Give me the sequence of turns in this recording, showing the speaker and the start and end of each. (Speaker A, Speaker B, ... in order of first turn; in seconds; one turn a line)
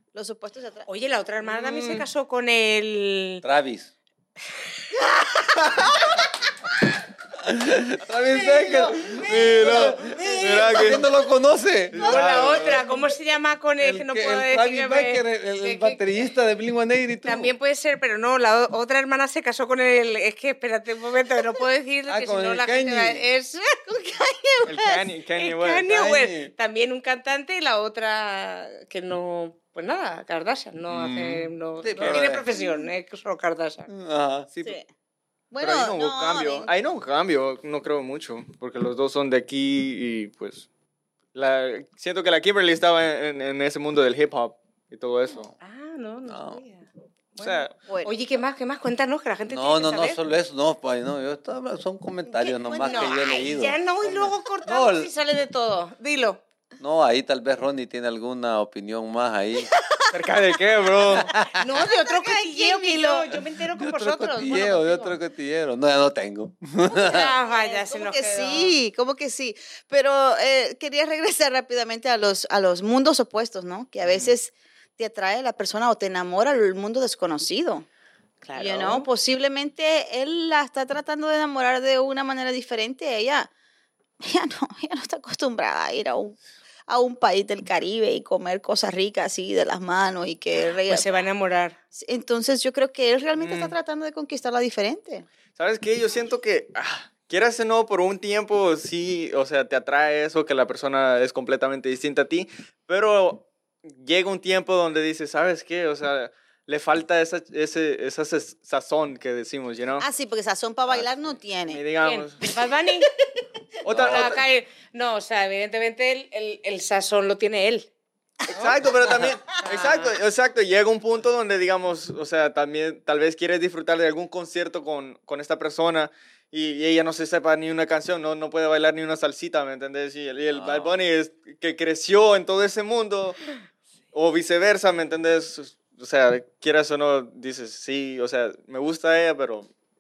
Speaker A: 0.1-0.9
Speaker B: 0.9-3.4
Speaker C: 1.7-1.9
Speaker D: 3.4-3.9
Speaker A: 5.0-6.0
Speaker D: 7.4-12.8
Speaker A: 8.3-11.1
Speaker C: 9.3-11.1
Speaker B: 12.0-16.0
Speaker C: 12.0-12.7
Speaker D: 13.8-17.5
Speaker B: 17.2-23.8
Speaker D: 22.1-23.2
Speaker A: 23.9-25.1
Speaker C: 24.7-25.9
Speaker B: 25.4-33.9
Speaker D: 25.9-26.5
Speaker D: 30.9-32.5
Speaker A: 32.5-32.9
Speaker D: 33.9-34.5
Speaker C: 34.5-34.8
Speaker A: 35.5-36.7
Speaker C: 35.6-40.7
Speaker C: 41.4-45.5
Speaker B: 45.6-46.9
Speaker D: 46.3-46.6
Speaker A: 47.4-48.1
Speaker C: 47.4-47.7
Speaker B: 48.0-50.2
Speaker D: 49.5-55.1
Speaker A: 52.3-53.3
Speaker B: 52.8-56.4
Speaker D: 56.8-59.7
Speaker A: 59.7-60.1
Speaker C: 60.1-61.3
Speaker D: 61.1-61.6
Speaker A: 61.2-63.3
Speaker B: 61.6-65.2
Speaker D: 63.8-67.3
Speaker A: 66.9-77.9
Speaker B: 67.0-68.8
Speaker B: 78.4-79.1
Speaker A: 78.6-83.5
Speaker A: 84.2-86.4
Speaker A: 86.9-91.3
Speaker B: 90.9-91.8
Speaker A: 91.9-95.3
Speaker C: 93.4-93.8
Speaker C: 95.6-110.1
Speaker A: 110.0-111.8
Speaker C: 111.7-112.4
Speaker B: 112.0-113.1
Speaker C: 113.8-114.4
Speaker D: 113.9-114.3
Speaker B: 114.0-117.9
Speaker C: 118.5-133.4
Speaker B: 119.6-120.1
Speaker D: 130.5-131.0
Speaker C: 134.1-139.7